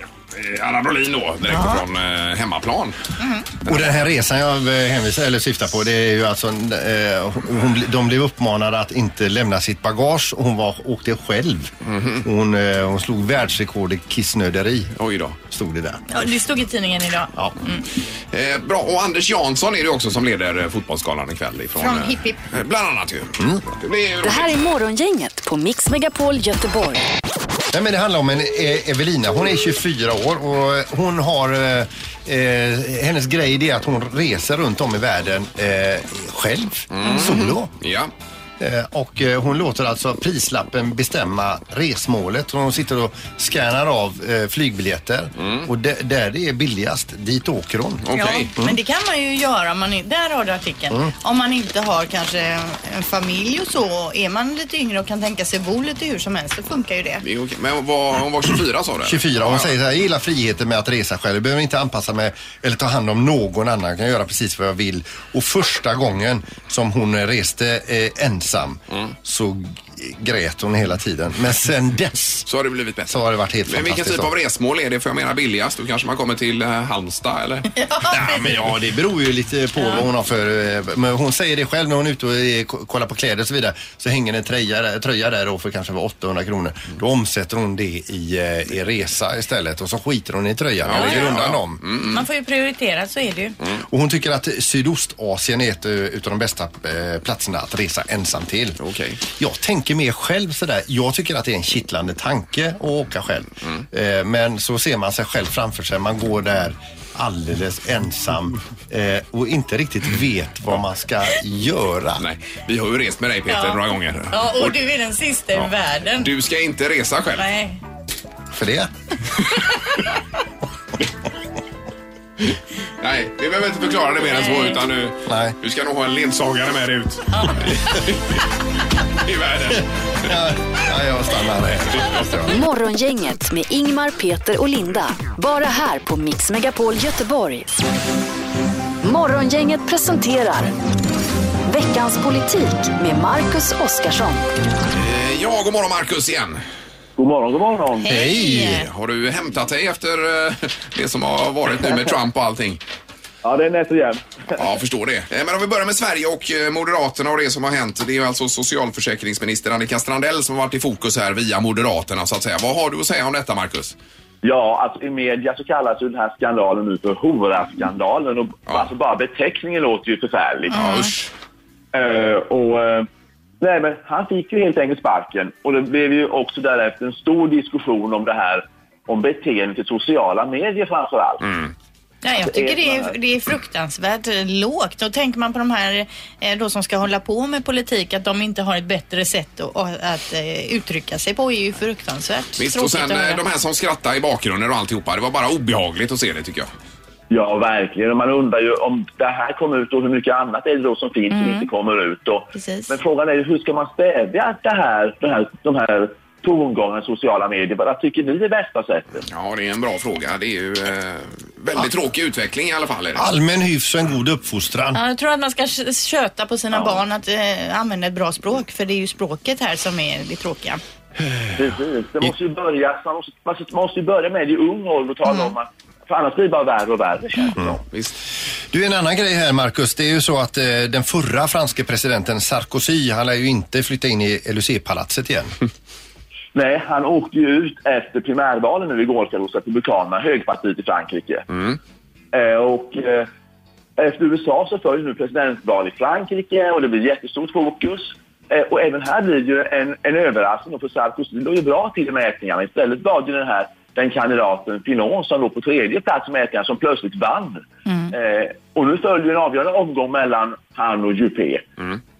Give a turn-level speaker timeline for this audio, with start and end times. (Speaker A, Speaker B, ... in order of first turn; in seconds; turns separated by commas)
Speaker A: 0.3-3.0, Speaker B: 1.5-1.8, Speaker B: 3.2-3.5, Speaker A: 3.6-4.0, Speaker C: 3.6-14.9, Speaker A: 11.9-12.2, Speaker A: 14.9-15.4, Speaker C: 15.5-16.2, Speaker B: 16.1-17.8, Speaker A: 18.3-24.5, Speaker B: 21.8-22.4, Speaker C: 23.4-23.6, Speaker D: 24.2-27.0, Speaker C: 27.7-37.7, Speaker A: 36.9-38.1, Speaker C: 38.6-48.0, Speaker A: 45.4-45.7, Speaker A: 48.0-48.5, Speaker B: 48.1-57.2, Speaker A: 57.2-59.7, Speaker C: 59.0-72.5, Speaker A: 72.5-77.7, Speaker C: 73.1-74.3, Speaker B: 77.7-78.5, Speaker C: 78.1-91.8, Speaker A: 90.8-92.2, Speaker B: 91.0-91.3, Speaker B: 92.0-93.6, Speaker C: 93.9-98.8, Speaker A: 98.8-99.2, Speaker C: 99.3-112.2, Speaker A: 112.2-114.8, Speaker B: 113.5-116.3, Speaker A: 116.2-117.5, Speaker B: 117.4-117.8, Speaker C: 118.5-118.9, Speaker A: 123.0-128.4, Speaker B: 124.3-124.8, Speaker C: 125.3-125.5, Speaker B: 127.3-127.6, Speaker A: 129.2-130.3, Speaker C: 130.2-132.6, Speaker D: 132.5-137.7, Speaker D: 139.0-140.7, Speaker D: 141.7-144.5, Speaker A: 144.9-146.6, Speaker E: 147.2-148.3, Speaker B: 148.0-148.9, Speaker C: 148.1-148.8, Speaker A: 148.6-152.8, Speaker E: 153.4-154.4, Speaker A: 154.6-163.9, Speaker E: 164.4-170.8, Speaker B: 170.7-171.1, Speaker A: 170.7-171.3, Speaker E: 171.9-173.1, Speaker E: 173.6-181.4, Speaker A: 181.4-181.7, Speaker B: 182.2-193.4, Speaker E: 182.4-183.1, Speaker A: 192.6-196.7, Speaker E: 197.3-209.2, Speaker B: 201.3-201.7, Speaker B: 202.5-202.9, Speaker A: 209.3-213.3, Speaker C: 213.1-215.0, Speaker B: 214.9-220.8, Speaker E: 221.6-227.8, Speaker A: 227.9-228.2, Speaker C: 228.7-235.5, Speaker E: 236.5-241.5, Speaker A: 241.5-241.8, Speaker E: 242.3-243.3, Speaker E: 244.0-261.6, Speaker B: 257.9-258.1